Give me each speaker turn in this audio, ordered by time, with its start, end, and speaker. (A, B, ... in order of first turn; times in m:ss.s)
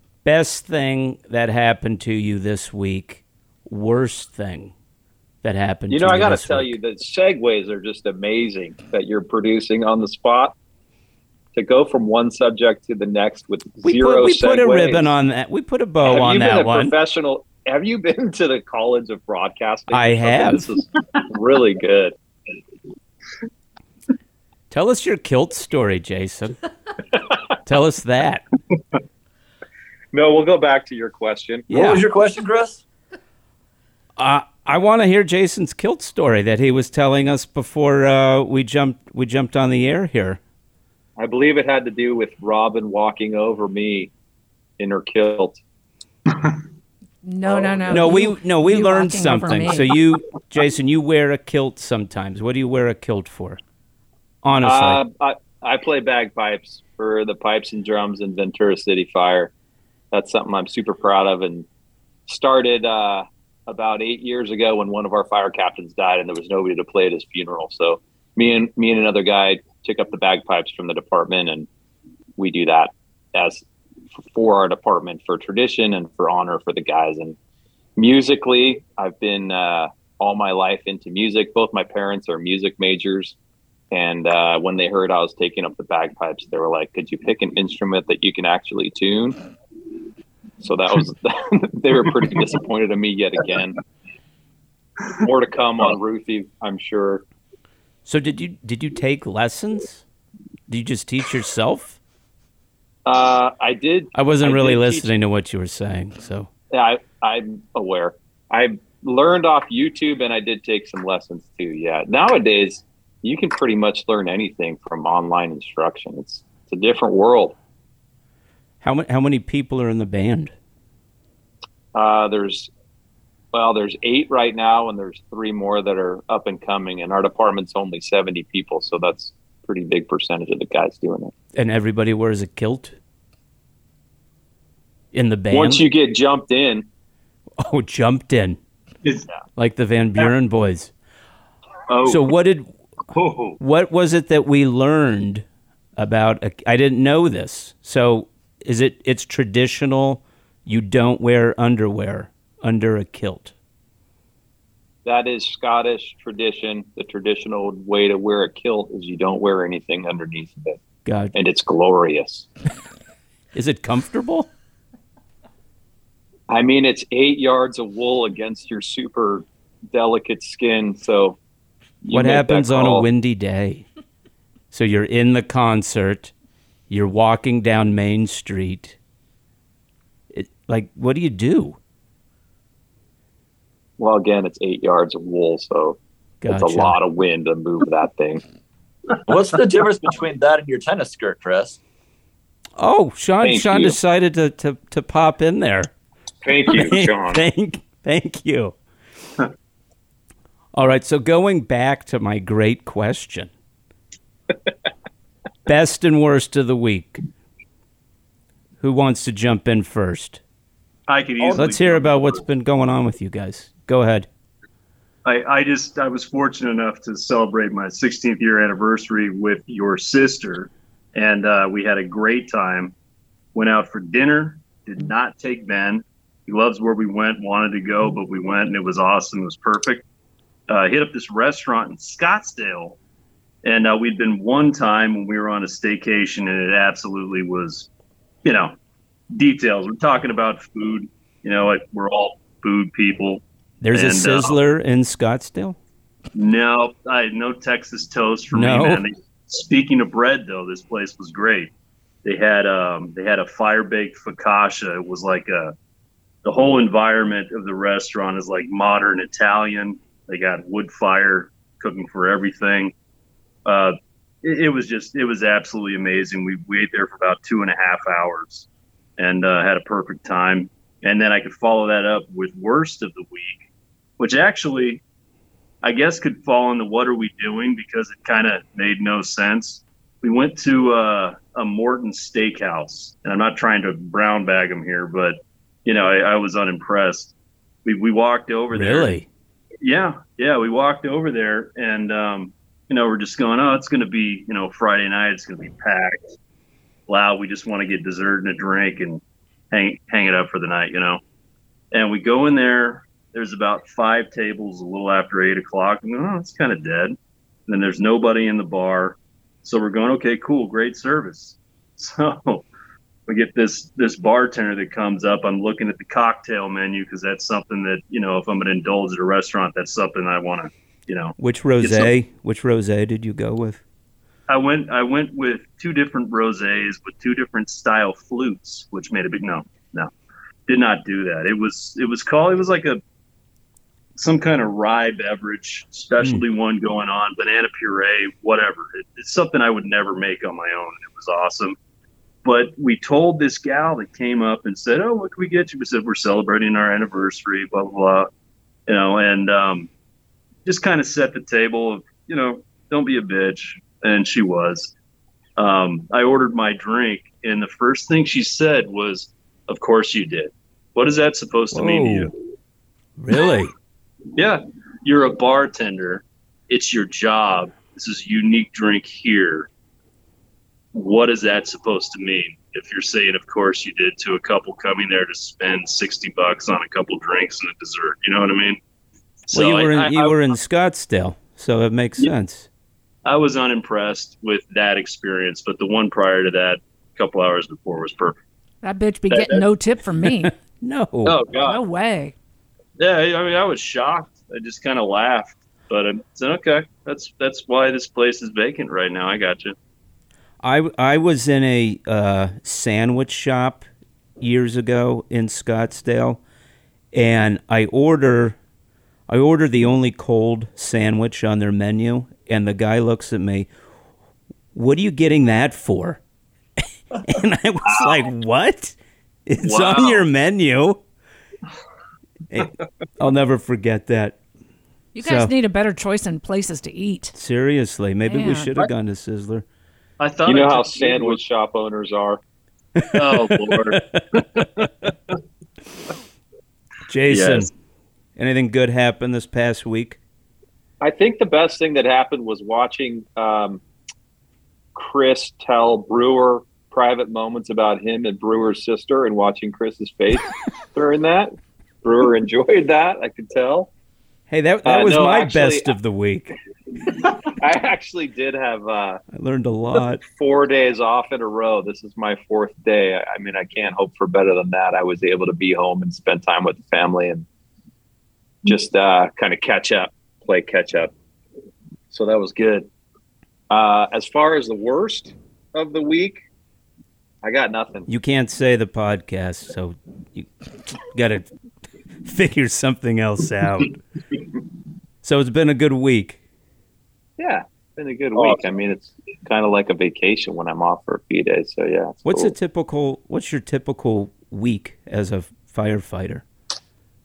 0:00.2-0:04.7 A
0:05.4-0:06.8 A
0:05.9-0:10.6 B
0:11.5-0:15.1 B
0:13.8-0:17.0 A
0:16.0-0:22.2 B
0:19.9-0:20.7 A
0:24.7-0:26.6 A
0:27.7-0:28.4 A
0:30.1-0:31.7 B
0:31.7-0:32.8 C
0:31.7-0:32.1 A
0:34.2-0:40.4 A
0:41.2-0:44.1 B
0:44.8-0:45.6 B
0:47.2-0:49.9 D
0:47.5-0:48.2 B
0:47.9-0:53.6 A
0:54.4-0:55.0 A
0:54.6-0:59.5 B
1:00.1-1:01.7 B
1:02.3-1:11.7 B
1:12.4-1:13.6 B
1:14.3-1:17.4 B
1:18.0-1:23.4 B
1:23.9-1:29.4 B
1:30.6-1:33.8 B
1:35.2-1:37.2 B
1:38.1-1:40.0 A
1:40.7-1:42.0 A
1:43.1-1:45.1 B
1:44.1-1:46.5 A
1:46.7-1:57.6 B
1:58.8-2:00.5 A
2:01.9-2:02.7 B
2:03.5-2:11.3 B
2:11.5-2:13.0 A
2:15.1-2:15.9 A
2:15.5-2:16.9 B
2:17.6-2:18.6 A
2:19.6-2:20.9 A
2:21.9-2:22.2 E
2:22.0-2:22.7 A
2:23.2-2:23.6 E
2:23.6-2:25.4 A
2:26.0-2:33.5 A
2:35.0-2:40.8 B
2:41.0-2:41.4 A
2:41.3-2:42.5 B
2:43.6-2:44.5 A
2:46.5-2:51.4 B
2:52.0-2:53.1 B
2:52.1-2:53.9 A
2:54.7-2:56.3 A
2:56.9-2:59.0 A
3:00.3-3:01.8 A
3:04.0-3:08.4 B
3:06.4-3:07.0 A
3:09.3-3:11.8 C
3:12.8-3:15.9 A
3:13.4-3:14.0 B
3:16.4-3:17.4 B
3:16.7-3:18.8 A
3:20.7-3:23.5 A
3:25.7-3:27.2 A
3:28.8-3:30.4 A
3:31.1-3:32.4 E
3:31.4-3:34.3 A
3:35.2-3:42.9 E
3:43.5-3:50.0 E
3:50.7-3:53.0 E
3:53.6-3:57.9 E
3:58.4-3:58.7 E
3:59.3-4:03.4 E
4:03.8-4:05.8 A
4:03.9-4:04.6 E
4:06.4-4:11.7 E
4:08.5-4:09.0 A
4:12.2-4:15.7 E
4:16.4-4:22.9 E
4:23.6-4:28.7 E
4:29.2-4:33.6 E
4:34.2-4:35.0 E
4:35.8-4:47.3 E
4:47.8-4:49.1 E
4:48.7-4:49.3 A
4:49.8-4:56.2 E
4:57.1-4:59.2 E
4:59.7-5:01.2 E
5:01.9-5:07.2 E
5:07.7-5:12.6 E
5:13.3-5:22.1 E
5:21.4-5:23.8 A
5:24.5-5:30.1 E
5:30.7-5:33.0 E
5:34.2-5:41.8 E
5:42.4-5:48.3 E
5:48.9-5:49.9 E
5:50.6-5:54.9 E
5:55.6-6:02.4 E
6:01.7-6:02.3 A
6:03.2-6:03.7 A
6:04.4-6:09.7 E
6:10.9-6:18.8 E
6:19.5-6:20.4 E
6:19.5-6:22.7 A
6:23.3-6:28.4 E
6:28.8-6:30.5 D
6:29.3-6:29.6 E
6:30.4-6:31.4 A
6:31.2-6:31.8 E
6:31.6-6:32.4 D
6:33.0-6:39.8 E
6:40.6-6:43.8 A
6:44.4-6:46.4 A
6:47.1-6:48.6 A
6:49.3-6:53.7 A
6:54.7-6:56.2 A
6:56.8-7:01.0 A
6:59.6-7:00.2 E
7:02.5-7:04.4 A
7:05.2-7:07.4 D
7:05.2-7:05.5 A
7:07.3-7:09.6 A
7:08.3-7:08.7 D
7:10.2-7:11.4 E
7:10.5-7:12.4 B
7:13.0-7:14.9 A
7:13.1-7:15.1 E
7:17.1-7:17.7 A
7:17.3-7:17.7 E
7:18.4-7:20.2 A
7:21.0-7:23.8 B
7:25.0-7:31.5 B
7:32.0-7:33.9 B
7:34.5-7:36.6 A
7:34.8-7:36.0 B
7:37.5-7:39.2 B
7:39.3-7:40.2 A
7:40.2-7:47.5 B
7:48.7-7:51.1 B
7:52.1-7:52.9 B
7:53.7-7:56.4 B
7:57.4-7:58.1 B
7:58.1-8:00.5 A
8:01.0-8:01.5 A
8:02.2-8:04.0 A
8:05.2-8:06.4 A
8:07.4-8:12.5 B
8:12.3-8:16.4 A